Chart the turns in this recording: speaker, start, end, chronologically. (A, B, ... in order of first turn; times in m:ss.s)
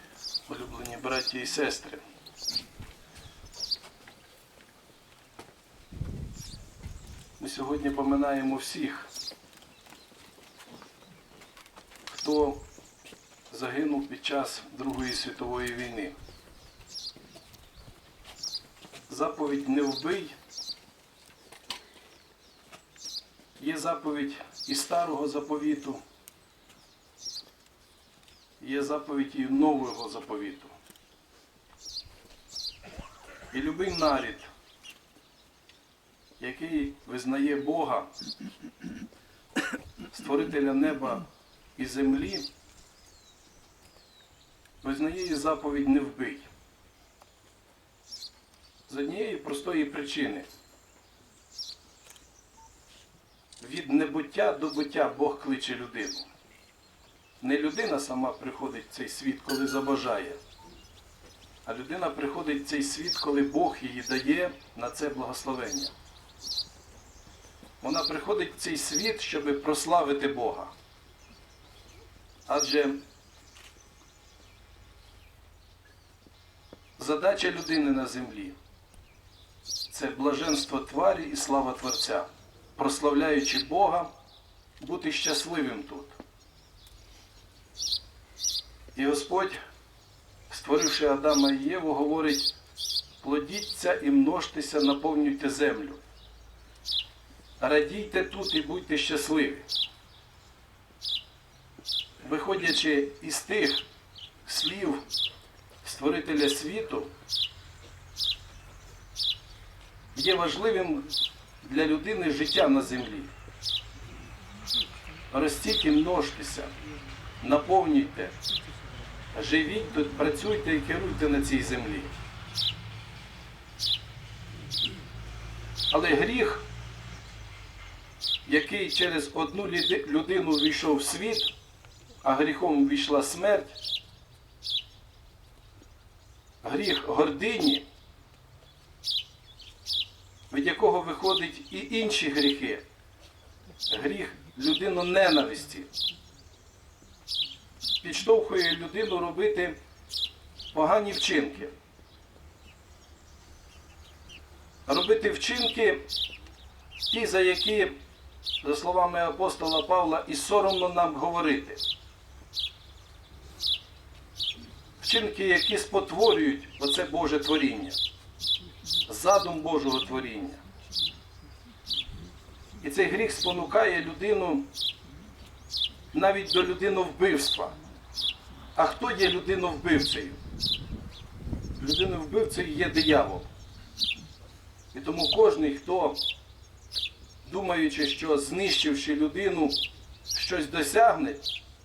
0:00.5-0:02.0 A
0:07.4-0:09.1 A
0:12.1-0:12.6 A
0:13.5-0:16.2 A
0:19.1-0:20.3 A
0:23.6-0:26.0 A
0:28.6-0:30.7 A
0:33.5-0:34.5 A
0:36.4-0:38.1 A
0:40.1-0:42.5 A
0:44.8-0:46.5 A
0:48.9-0:50.5 A
0:53.6-0:56.3 A
0:57.4-1:00.4 A
1:01.6-1:05.9 A
1:07.8-1:10.7 A
1:12.5-1:13.0 A
1:17.0-1:18.6 A
1:19.9-1:24.1 A
1:24.8-1:26.1 A
1:28.9-1:29.6 A
1:30.5-1:32.5 A
1:33.2-1:36.0 A
1:37.6-1:39.6 A
1:42.2-1:43.8 A
1:44.4-1:45.0 A
1:45.8-1:47.1 A
1:50.1-1:51.1 A
1:51.6-1:53.3 A
1:55.3-1:56.7 A
1:57.4-1:58.3 A
1:59.3-2:02.1 A
2:05.9-2:06.7 A
2:08.4-2:11.5 A
2:12.2-2:13.8 A
2:16.6-2:17.8 A
2:20.5-2:22.8 A
2:23.9-2:25.9 A
2:28.0-2:29.8 A
2:30.7-2:31.7 A
2:34.9-2:36.0 A
2:37.1-2:38.0 A
2:38.6-2:41.8 A
2:45.0-2:48.0 A
2:49.1-2:50.6 A
2:52.8-2:54.7 A
2:56.1-2:57.8 A
2:58.8-3:00.4 A
3:01.8-3:03.5 A
3:04.9-3:06.2 A
3:07.4-3:09.8 A
3:10.3-3:11.4 A